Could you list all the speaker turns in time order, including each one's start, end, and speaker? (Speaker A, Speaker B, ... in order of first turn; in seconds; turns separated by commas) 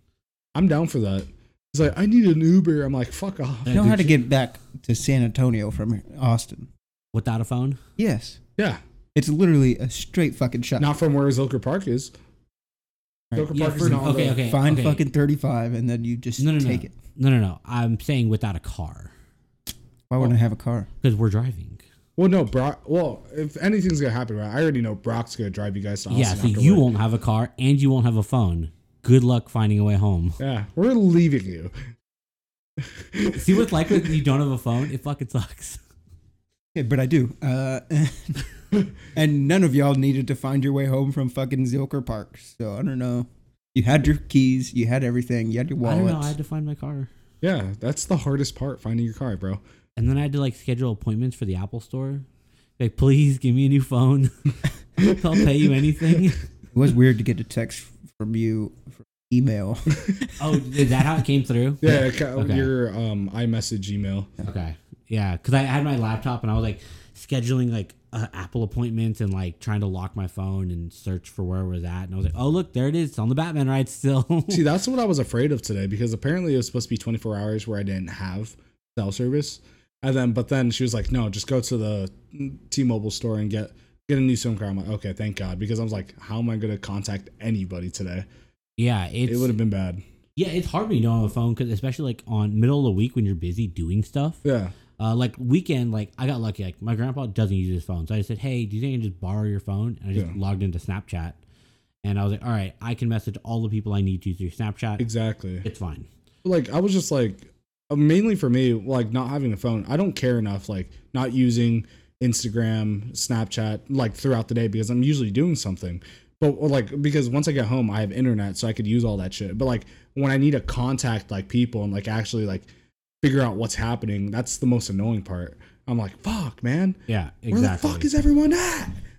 Speaker A: 0.5-3.8, Speaker B: 3.7-4.1, Speaker C: 3.7-6.7, Speaker B: 7.1-7.8, Speaker C: 8.0-8.4, Speaker C: 9.1-10.9, Speaker A: 10.8-12.1, Speaker C: 13.3-16.9, Speaker A: 13.3-14.4, Speaker B: 13.5-15.0, Speaker B: 16.4-19.1, Speaker C: 20.1-20.9, Speaker B: 21.0-21.8, Speaker A: 22.2-26.9, Speaker B: 26.1-30.4, Speaker A: 30.4-31.7, Speaker A: 32.8-34.1, Speaker B: 33.3-35.8, Speaker C: 36.7-38.4, Speaker C: 39.1-46.3, Speaker B: 45.8-47.1, Speaker A: 47.4-49.6, Speaker B: 50.0-52.2, Speaker B: 52.8-56.4, Speaker C: 56.7-60.4, Speaker B: 60.4-62.7, Speaker A: 61.8-64.3, Speaker B: 64.4-74.6, Speaker A: 74.5-88.3, Speaker B: 88.8-89.5, Speaker A: 89.3-90.0, Speaker B: 90.4-94.4, Speaker A: 94.4-94.7, Speaker B: 95.0-101.4, Speaker B: 102.0-105.0, Speaker A: 105.0-105.7, Speaker B: 105.6-106.1, Speaker A: 106.4-122.7, Speaker A: 123.2-127.0, Speaker B: 127.1-128.1, Speaker A: 127.5-129.0